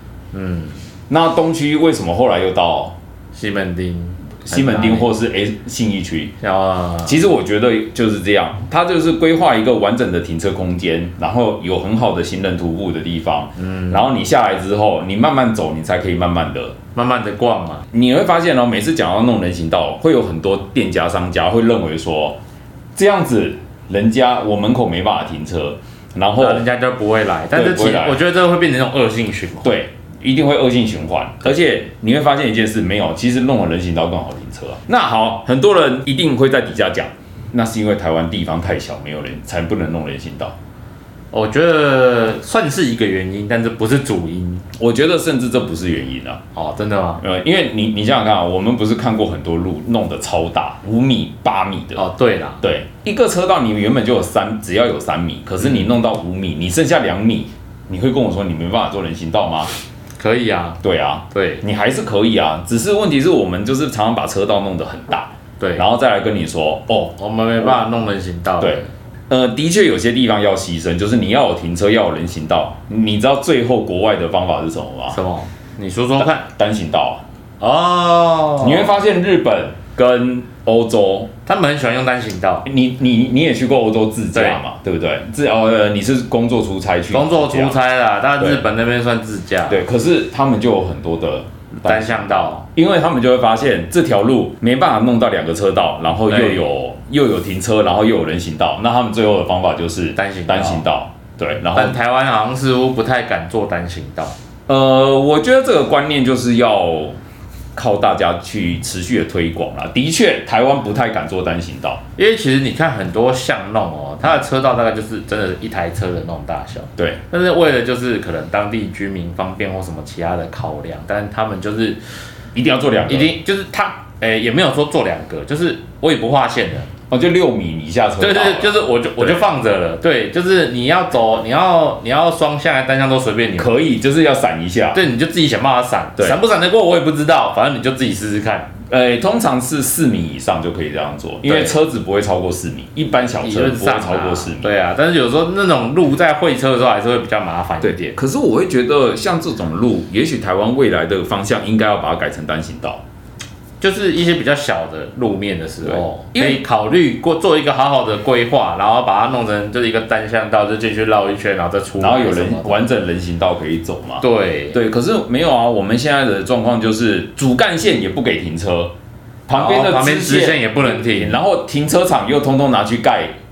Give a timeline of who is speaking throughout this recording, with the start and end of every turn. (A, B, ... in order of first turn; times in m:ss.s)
0:00.3-0:00.8 A
0:01.1-0:02.9 B
0:03.3-0:05.1 A
0:04.5-0:06.3 B
0:06.4-0:07.2 A
0:07.0-0:16.8 B
0:13.6-0:14.0 A
0:16.9-0:17.8 A
0:17.9-0:22.4 B
0:23.0-0:26.6 B
0:26.4-0:29.8 A
0:27.5-0:28.2 B
0:29.6-0:40.5 B
0:41.3-0:44.6 A
0:44.8-0:46.4 B
0:46.5-0:47.2 A
0:47.2-0:52.0 B
0:52.0-0:52.6 A
0:52.6-0:59.7 B
0:55.6-0:55.9 A
1:00.2-1:00.8 A
1:00.8-1:07.8 B
1:01.3-1:01.6 A
1:05.6-1:05.8 A
1:07.2-1:08.9 A
1:08.6-1:15.2 B
1:15.1-1:16.4 A
1:16.2-1:17.2 B
1:17.6-1:18.9 A
1:18.6-1:21.3 B
1:21.4-1:22.6 A
1:22.6-1:27.8 B
1:24.3-1:24.6 A
1:27.1-1:29.8 A
1:29.7-1:42.0 B
1:31.8-1:32.6 A
1:36.3-1:36.6 A
1:40.2-1:40.8 A
1:41.7-1:44.3 A
1:44.7-1:47.2 B
1:47.7-1:52.0 B
1:52.2-2:02.0 A
2:02.5-2:03.3 B
2:03.1-2:06.9 A
2:07.1-2:09.4 B
2:08.2-2:13.7 A
2:13.6-2:15.0 B
2:14.9-2:18.7 A
2:18.9-2:24.7 B
2:21.4-2:21.8 A
2:23.4-2:28.2 A
2:27.8-2:33.0 B
2:33.8-2:42.8 A
2:35.8-2:36.6 B
2:42.0-2:48.9 B
2:44.2-2:44.8 A
2:49.5-2:53.3 B
2:49.5-2:51.4 A